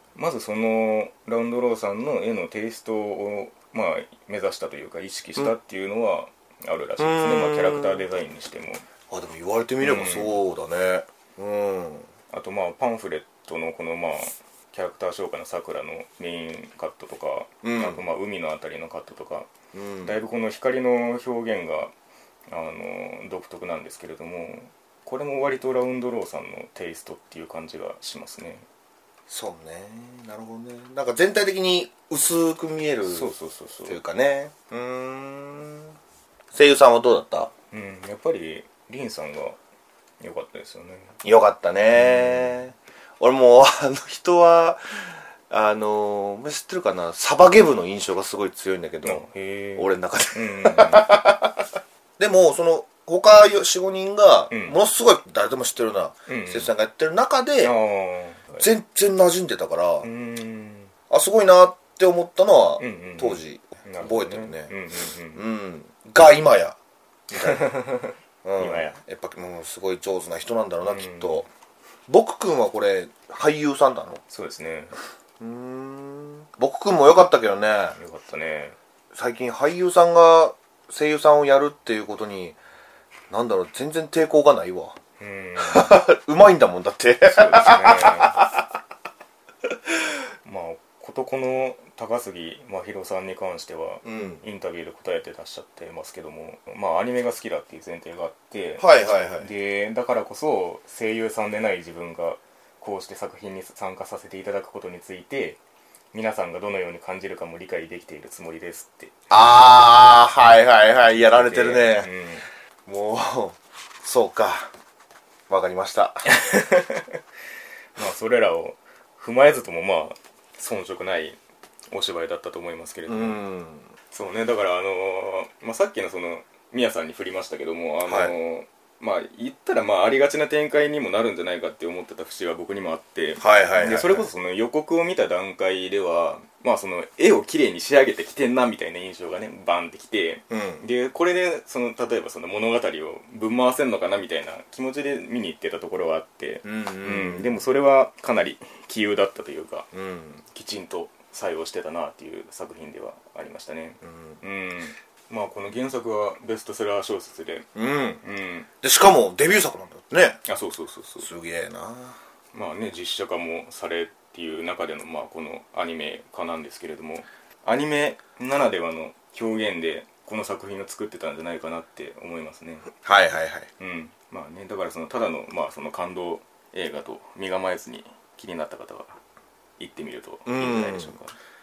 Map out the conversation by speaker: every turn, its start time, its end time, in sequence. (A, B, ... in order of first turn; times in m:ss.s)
0:00.1-0:08.8 A
0:07.0-0:08.1 B
0:09.1-0:12.1 B
0:09.8-0:10.4 A
0:12.3-0:19.5 A
0:17.6-0:18.0 B
0:19.7-0:20.2 B
0:20.0-0:21.9 A
0:22.5-0:28.6 A
0:29.3-0:33.3 B
0:33.1-0:34.0 A
0:33.8-0:36.0 B
0:36.5-0:37.5 B
0:37.7-0:39.6 A
0:40.2-0:41.1 A
0:41.2-0:51.7 B
0:41.9-0:42.5 A
0:49.0-0:51.2 A
0:52.2-0:57.7 B
0:54.5-0:54.8 A
0:56.3-0:56.7 A
0:57.6-0:58.6 A
0:58.6-1:00.1 B
1:00.0-1:00.9 A
1:01.1-1:04.7 B
1:02.8-1:05.4 A
1:05.3-1:06.8 B
1:07.3-1:07.7 B
1:07.4-1:09.0 A
1:08.4-1:11.5 B
1:10.8-1:11.4 A
1:12.1-1:14.2 B
1:14.3-1:14.9 A
1:15.4-1:18.0 B
1:18.0-1:18.8 A
1:19.1-1:22.6 B
1:23.3-1:25.0 B
1:25.2-1:26.0 A
1:25.6-1:28.6 B
1:27.2-1:28.5 A
1:30.4-1:45.6 A
1:34.0-1:34.4 B
1:38.8-1:39.5 B
1:46.1-1:49.1 A
1:49.3-1:52.1 B
1:51.1-1:52.4 A
1:52.8-1:54.7 B
1:55.5-1:56.3 B
1:56.3-1:57.2 A
1:58.0-2:01.4 A
2:01.9-2:03.4 A
2:03.0-2:03.9 B
2:04.1-2:29.9 A
2:08.0-2:08.3 B
2:13.4-2:14.3 B
2:20.5-2:20.8 B
2:26.6-2:27.6 B
2:29.9-2:30.4 B
2:30.5-2:37.7 A
2:34.0-2:34.4 B
2:37.7-2:38.2 B
2:38.2-2:38.7 A
2:38.8-2:40.4 B
2:40.4-2:41.3 A
2:41.2-2:42.2 B
2:42.5-2:52.9 A
2:53.0-2:53.7 B
2:53.8-2:59.2 A
2:59.8-3:01.4 A
3:00.5-3:01.2 B